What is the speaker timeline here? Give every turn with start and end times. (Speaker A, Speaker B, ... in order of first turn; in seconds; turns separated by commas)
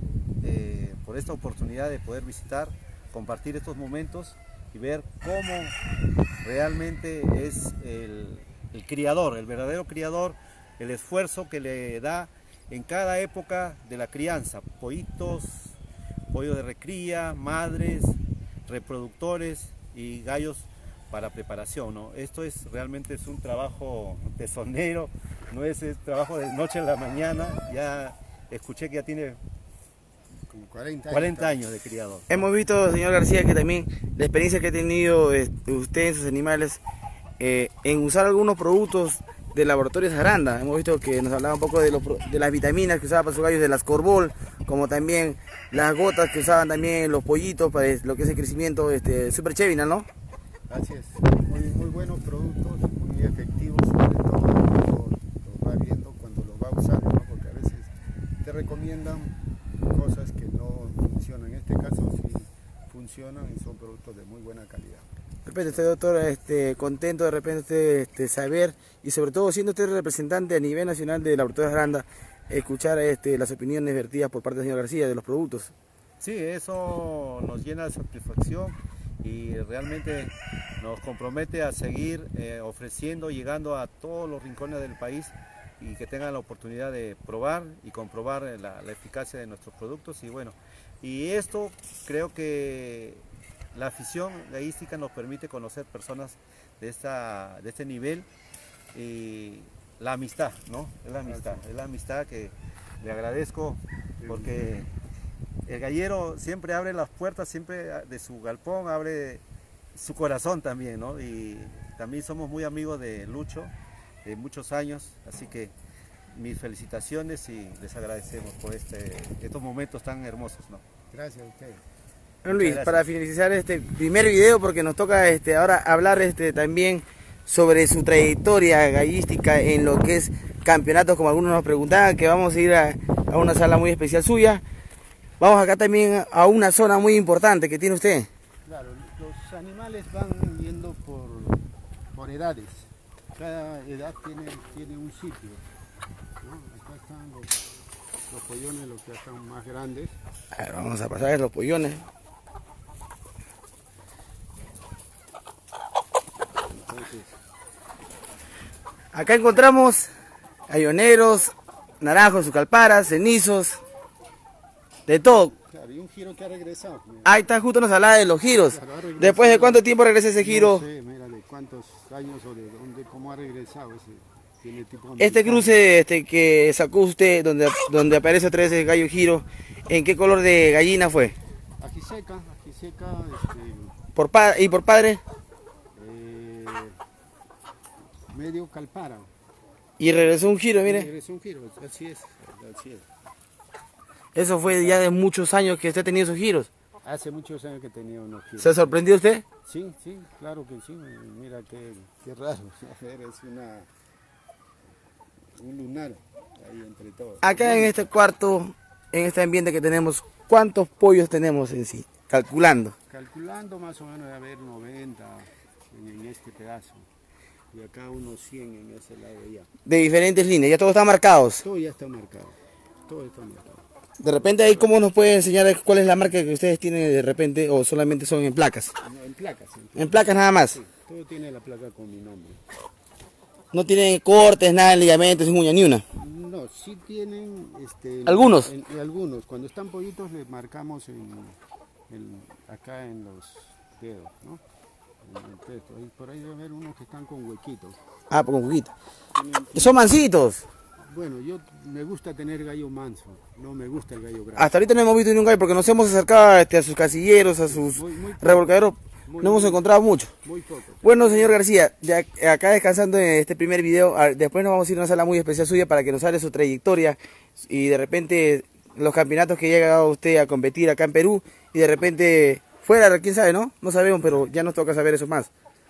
Speaker A: 0.4-5.8, Speaker A: 6.4-15.8, Speaker A: 16.3-29.4, Speaker B: 30.5-31.6, Speaker A: 31.1-32.4, Speaker C: 32.3-36.8, Speaker C: 37.4-50.1, Speaker B: 50.7-59.3, Speaker B: 59.9-65.1, Speaker C: 65.5-75.7, Speaker A: 76.2-98.3, Speaker A: 98.9-104.9, Speaker B: 101.3-101.6, Speaker B: 104.2-104.6, Speaker A: 105.7-109.4, Speaker A: 110.0-113.7, Speaker A: 114.2-115.7, Speaker A: 116.3-120.8, Speaker B: 121.1-121.8, Speaker C: 122.4-134.6, Speaker A: 122.5-123.0, Speaker C: 135.4-138.3, Speaker B: 138.7-141.6, Speaker B: 142.2-145.6, Speaker B: 146.4-147.6, Speaker B: 148.3-150.2, Speaker C: 150.5-152.1, Speaker B: 156.7-157.3, Speaker C: 159.1-160.1, Speaker C: 160.7-163.8, Speaker C: 165.1-165.5, Speaker B: 165.3-167.4, Speaker C: 167.2-170.8, Speaker B: 168.7-169.8, Speaker B: 170.4-175.8, Speaker C: 175.2-181.4, Speaker B: 181.8-183.9, Speaker C: 184.2-185.2, Speaker B: 185.9-187.0, Speaker B: 188.3-189.3, Speaker C: 190.0-191.1, Speaker B: 190.8-193.1, Speaker C: 194.3-196.7, Speaker B: 194.7-195.1, Speaker B: 197.0-199.0, Speaker C: 198.6-199.4, Speaker B: 199.7-203.9, Speaker B: 205.6-208.0, Speaker C: 207.4-212.9, Speaker B: 213.1-217.1, Speaker B: 217.7-219.7, Speaker C: 219.9-221.6, Speaker B: 221.6-222.6, Speaker B: 223.1-223.8, Speaker C: 224.2-228.9, Speaker B: 229.0-232.6, Speaker C: 230.0-230.8, Speaker C: 233.7-236.0, Speaker B: 236.1-241.6, Speaker C: 238.3-238.7, Speaker B: 242.1-244.6, Speaker B: 245.2-248.0, Speaker C: 248.3-248.9, Speaker B: 249.3-250.2, Speaker C: 249.8-250.7, Speaker B: 251.0-254.7, Speaker C: 254.6-260.3, Speaker B: 257.7-259.8, Speaker B: 260.4-261.5, Speaker C: 261.0-275.5